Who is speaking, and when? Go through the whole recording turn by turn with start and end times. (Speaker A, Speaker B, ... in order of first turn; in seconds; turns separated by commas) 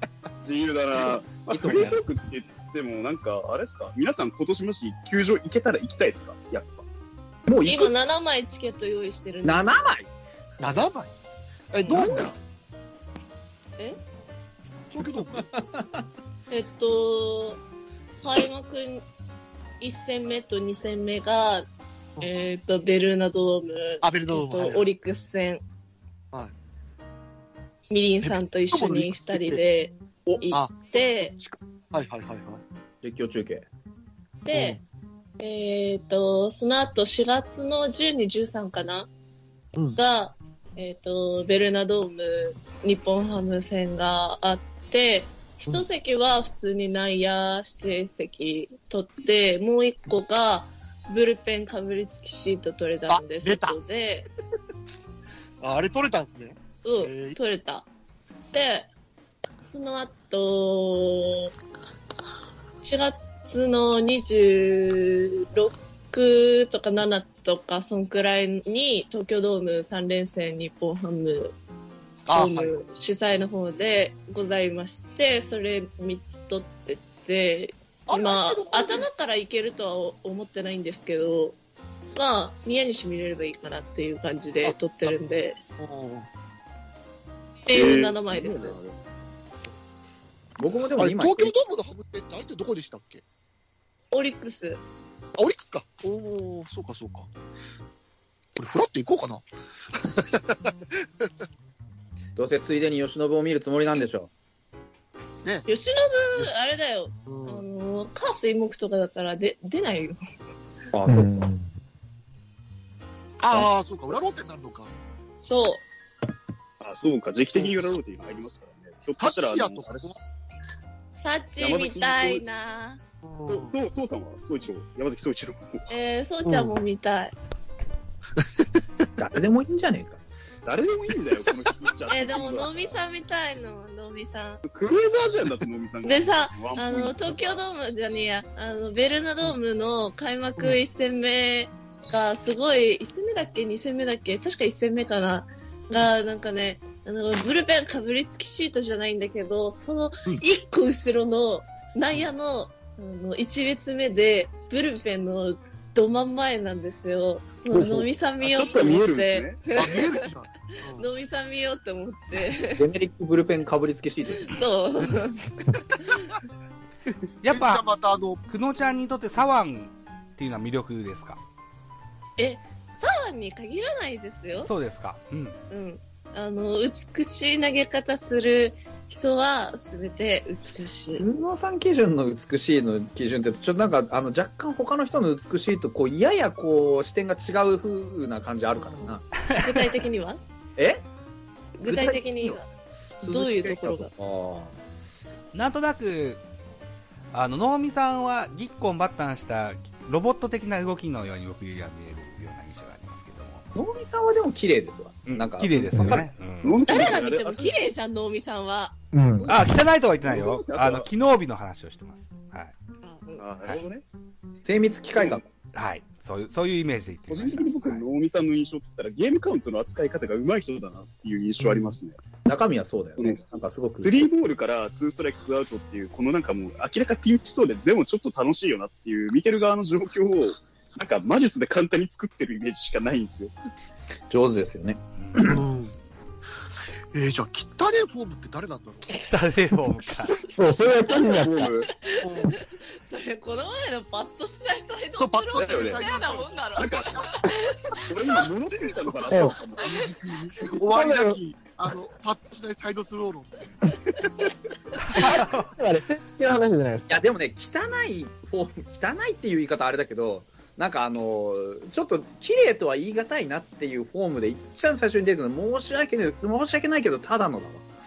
Speaker A: 0.4-6.8, Speaker B: 0.9-2.0, Speaker B: 7.5-8.0, Speaker C: 7.6-9.8, Speaker B: 9.4-10.1, Speaker D: 10.6-11.1, Speaker D: 11.7-12.4, Speaker B: 12.0-12.3, Speaker D: 14.9-15.5, Speaker B: 15.3-16.0, Speaker C: 16.5-17.6, Speaker C: 18.2-19.0, Speaker C: 19.8-21.7, Speaker C: 22.2-25.6, Speaker D: 24.0-24.9, Speaker C: 27.9-31.3, Speaker D: 28.2-29.6, Speaker D: 30.5-32.6, Speaker B: 33.0-33.6, Speaker C: 34.5-34.8, Speaker D: 34.5-34.8, Speaker C: 35.4-39.1, Speaker C: 40.0-54.3, Speaker D: 53.1-53.8, Speaker D: 55.6-57.4, Speaker C: 56.8-57.9, Speaker C: 58.5-58.9, Speaker C: 59.6-61.5, Speaker C: 62.8-71.5, Speaker D: 72.3-72.8, Speaker C: 72.3-81.6, Speaker D: 78.1-79.1, Speaker C: 82.1-85.6, Speaker D: 84.6-85.2, Speaker D: 85.8-86.3, Speaker C: 87.7-88.8, Speaker A: 87.7-89.0, Speaker B: 90.6-91.5, Speaker D: 91.0-93.2, Speaker C: 94.1-94.8, Speaker D: 95.3-97.3, Speaker D: 98.5-101.3, Speaker B: 102.3-104.3, Speaker C: 105.7-110.2, Speaker D: 107.2-107.6, Speaker B: 110.9-111.4, Speaker E: 111.1-111.7, Speaker D: 113.4-114.9, Speaker C: 115.4-115.8, Speaker A: 116.8-120.1, Speaker D: 117.6-117.9, Speaker D: 119.2-120.1, Speaker C: 121.2-123.0, Speaker A: 121.6-122.4, Speaker D: 123.2-123.7, Speaker A: 123.5-125.9, Speaker C: 125.9-127.3, Speaker D: 128.4-128.7, Speaker B: 129.2-130.2, Speaker A: 130.7-132.9, Speaker D: 131.2-132.1, Speaker C: 132.1-134.6, Speaker A: 134.7-137.6, Speaker C: 136.0-160.2, Speaker D: 157.7-158.1, Speaker A: 158.4-159.6, Speaker D: 159.7-161.1, Speaker C: 161.0-162.8, Speaker B: 162.7-164.5, Speaker C: 164.4-165.4, Speaker D: 165.1-166.1, Speaker F: 167.4-167.8, Speaker D: 167.4-168.4, Speaker F: 168.4-171.4, Speaker C: 172.4-174.7, Speaker F: 174.6-175.6, Speaker C: 175.7-181.2, Speaker B: 181.2-189.2, Speaker D: 188.8-189.2, Speaker F: 189.4-189.9, Speaker C: 189.5-190.4, Speaker B: 190.8-191.0, Speaker C: 191.8-192.6, Speaker B: 191.8-192.6, Speaker B: 193.2-194.7, Speaker C: 193.2-194.1, Speaker F: 195.5-196.4, Speaker F: 197.3-203.6, Speaker B: 203.7-206.2, Speaker F: 205.3-207.1, Speaker A: 206.0-207.8, Speaker C: 206.9-208.9, Speaker E: 209.1-209.6, Speaker F: 209.5-212.7, Speaker A: 210.2-211.1, Speaker C: 213.0-213.4, Speaker A: 213.4-214.0, Speaker B: 214.6-215.4, Speaker A: 215.2-215.4, Speaker F: 215.7-218.1, Speaker A: 217.3-222.2, Speaker D: 221.6-221.9, Speaker B: 222.4-224.4, Speaker A: 224.0-233.5, Speaker B: 234.3-235.6, Speaker F: 235.2-235.6, Speaker D: 235.4-235.9, Speaker D: 237.1-239.1, Speaker F: 239.1-240.4, Speaker E: 240.3-241.7, Speaker A: 241.0-241.9, Speaker C: 241.9-248.4, Speaker D: 242.2-242.5, Speaker D: 245.2-247.2, Speaker A: 245.6-246.1, Speaker A: 246.7-247.1, Speaker A: 248.0-250.8, Speaker D: 248.9-249.6, Speaker E: 249.3-249.5, Speaker C: 249.8-250.1, Speaker D: 250.7-254.5, Speaker E: 250.9-251.4, Speaker F: 255.0-255.7, Speaker E: 255.1-257.2, Speaker B: 257.1-267.9